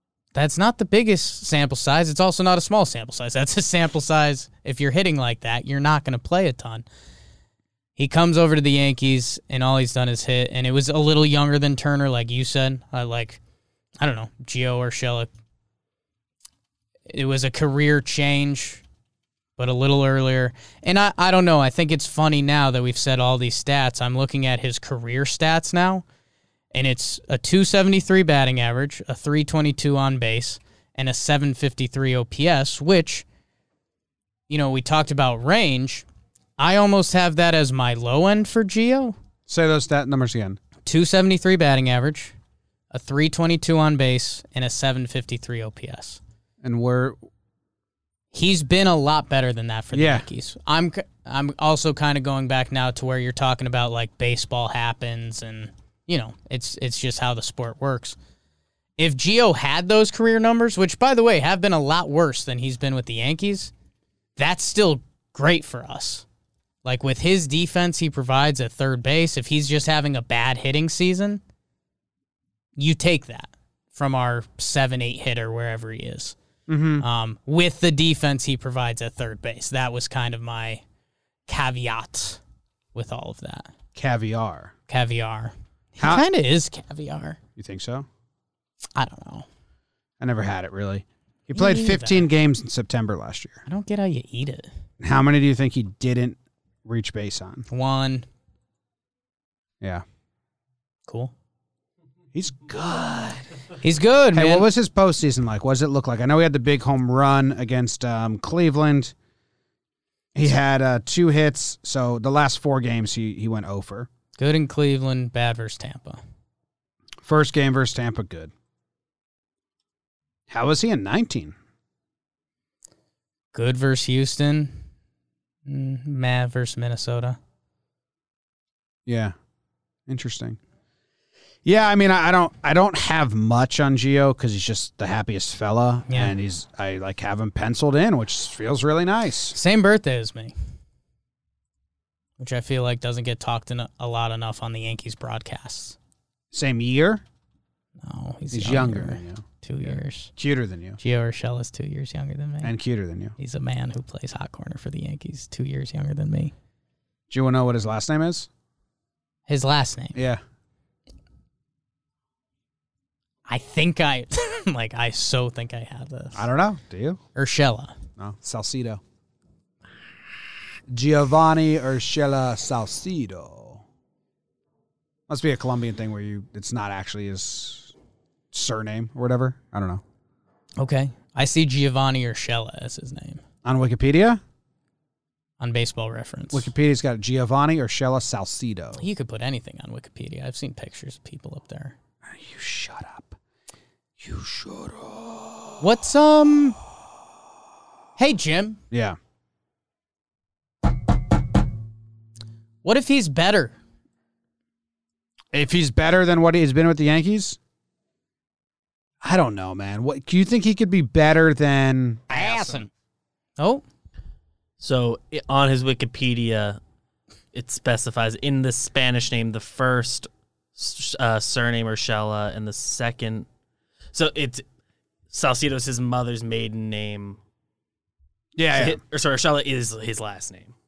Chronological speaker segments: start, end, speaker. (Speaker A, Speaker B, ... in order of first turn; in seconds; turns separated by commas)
Speaker A: 0.3-6.8, Speaker A: 8.0-13.4, Speaker A: 14.0-15.3, Speaker A: 17.1-18.8, Speaker A: 19.6-26.0, Speaker A: 26.7-33.2, Speaker A: 34.5-36.0, Speaker A: 36.6-39.1, Speaker B: 39.5-40.6, Speaker A: 40.9-42.4, Speaker A: 42.9-46.2, Speaker B: 46.6-47.2, Speaker A: 48.3-58.2, Speaker B: 49.9-50.2, Speaker A: 59.0-63.7, Speaker A: 64.4-66.2, Speaker A: 66.8-71.4, Speaker A: 72.8-76.4, Speaker B: 76.7-77.0, Speaker A: 77.0-80.8, Speaker A: 81.5-82.4, Speaker A: 82.9-83.7, Speaker B: 83.9-84.7, Speaker A: 84.9-87.4, Speaker B: 86.0-86.2, Speaker B: 87.6-88.0, Speaker A: 89.0-89.5, Speaker B: 90.2-93.6, Speaker A: 91.5-92.3, Speaker A: 93.7-94.7, Speaker B: 95.0-97.7, Speaker A: 97.7-98.2, Speaker A: 101.1-101.3, Speaker B: 102.3-103.5, Speaker A: 103.8-104.7, Speaker B: 104.3-109.1, Speaker B: 110.3-114.1, Speaker A: 114.4-116.2, Speaker B: 117.2-118.5, Speaker B: 120.5-121.5, Speaker A: 123.5-124.7, Speaker A: 125.7-127.4, Speaker B: 129.1-129.3, Speaker B: 130.1-130.6, Speaker B: 131.6-139.6, Speaker A: 136.1-136.3, Speaker A: 139.5-140.5, Speaker A: 142.4-146.0, Speaker B: 146.5-147.2, Speaker A: 148.0-150.3, Speaker B: 148.5-149.4, Speaker B: 150.4-151.0, Speaker A: 151.0-152.7, Speaker B: 152.6-153.3, Speaker A: 153.4-156.5, Speaker B: 157.3-158.5, Speaker A: 159.5-160.2, Speaker B: 160.1-160.4, Speaker A: 163.5-166.5, Speaker B: 166.3-167.2, Speaker A: 167.3-167.9, Speaker B: 168.2-169.0, Speaker B: 170.9-173.8, Speaker B: 175.3-177.9, Speaker B: 178.5-180.0, Speaker A: 180.8-183.4, Speaker B: 183.6-184.4, Speaker A: 185.6-186.7, Speaker B: 186.5-189.0, Speaker A: 189.0-192.0, Speaker B: 192.2-193.4, Speaker B: 194.2-195.8, Speaker A: 195.8-196.8, Speaker A: 198.2-198.8, Speaker B: 198.9-199.2, Speaker A: 202.8-203.8, Speaker B: 205.5-207.6, Speaker B: 209.2-212.9, Speaker A: 212.3-212.9, Speaker A: 213.6-213.8, Speaker C: 214.8-216.8, Speaker C: 217.5-223.5, Speaker C: 224.1-224.6, Speaker C: 225.3-227.4, Speaker B: 228.6-229.0, Speaker C: 228.7-230.7